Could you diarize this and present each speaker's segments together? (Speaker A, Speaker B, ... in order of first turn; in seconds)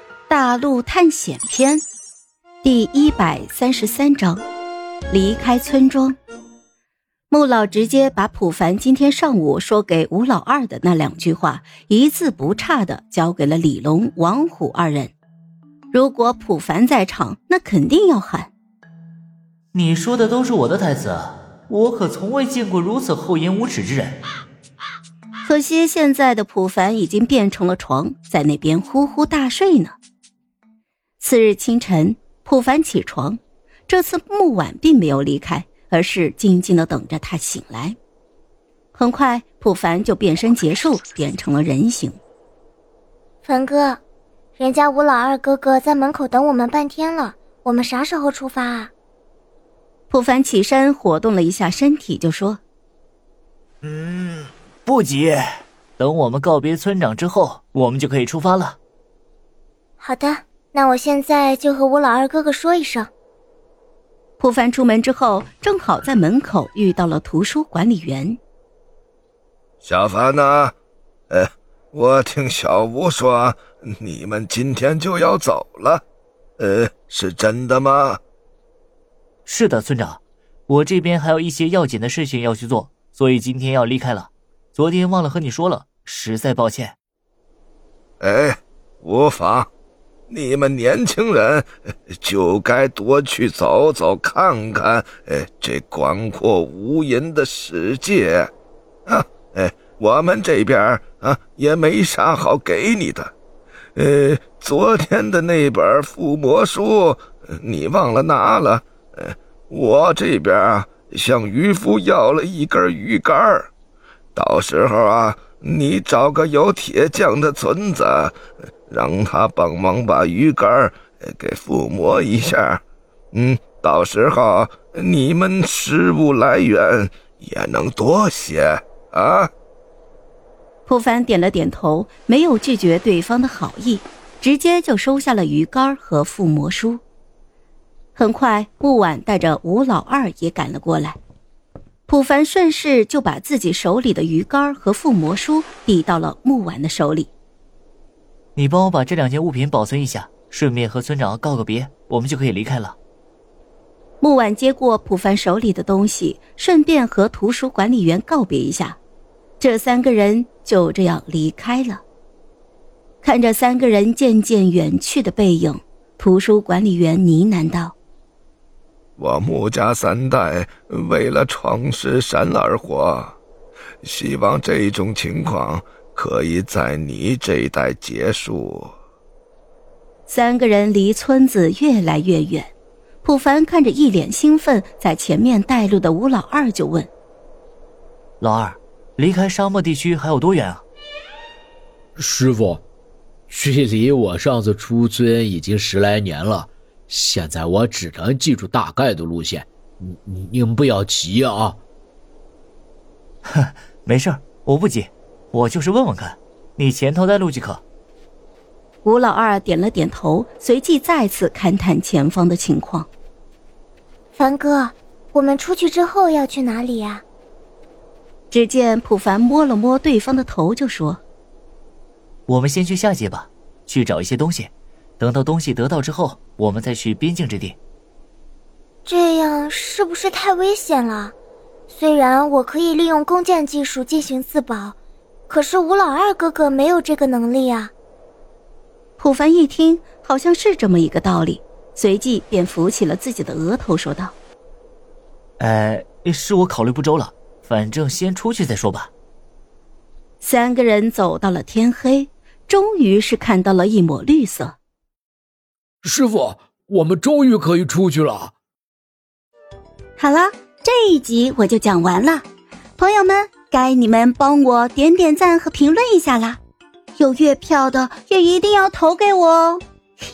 Speaker A: 0.3-1.8, 2.6-4.4, 5.1-6.2, 7.3-15.1, 15.9-18.5, 25.4-30.0, 31.2-38.0, 39.0-42.2, 50.1-52.6, 64.4-68.4, 130.9-137.0, 138.2-141.2, 142.1-147.3, 154.2-159.0, 159.6-162.0, 163.2-167.9, 180.3-182.7, 183.2-187.1, 209.0-213.1, 218.5-221.2, 239.2-244.3, 250.4-254.8, 260.2-262.4, 263.0-266.6, 267.2-269.8
Speaker B: 19.7-24.2, 53.8-58.8, 79.5-87.0, 148.6-153.0, 188.4-190.8, 203.5-207.8, 222.5-227.8, 245.6-249.1
Speaker C: 43.4-44.0, 44.6-48.9, 60.0-63.1, 214.4-217.2, 229.1-231.3, 231.9-234.9, 235.5-237.9
Speaker D: 69.8-70.7, 71.3-76.0, 76.6-78.2, 88.2-89.7, 90.3-91.7, 92.2-98.5, 99.1-103.3, 104.0-113.7, 114.3-118.4, 118.9-122.8, 123.3-129.5, 169.2-173.4, 174.0-178.9
Speaker E: 192.2-192.8, 193.5-201.8, 256.0-258.5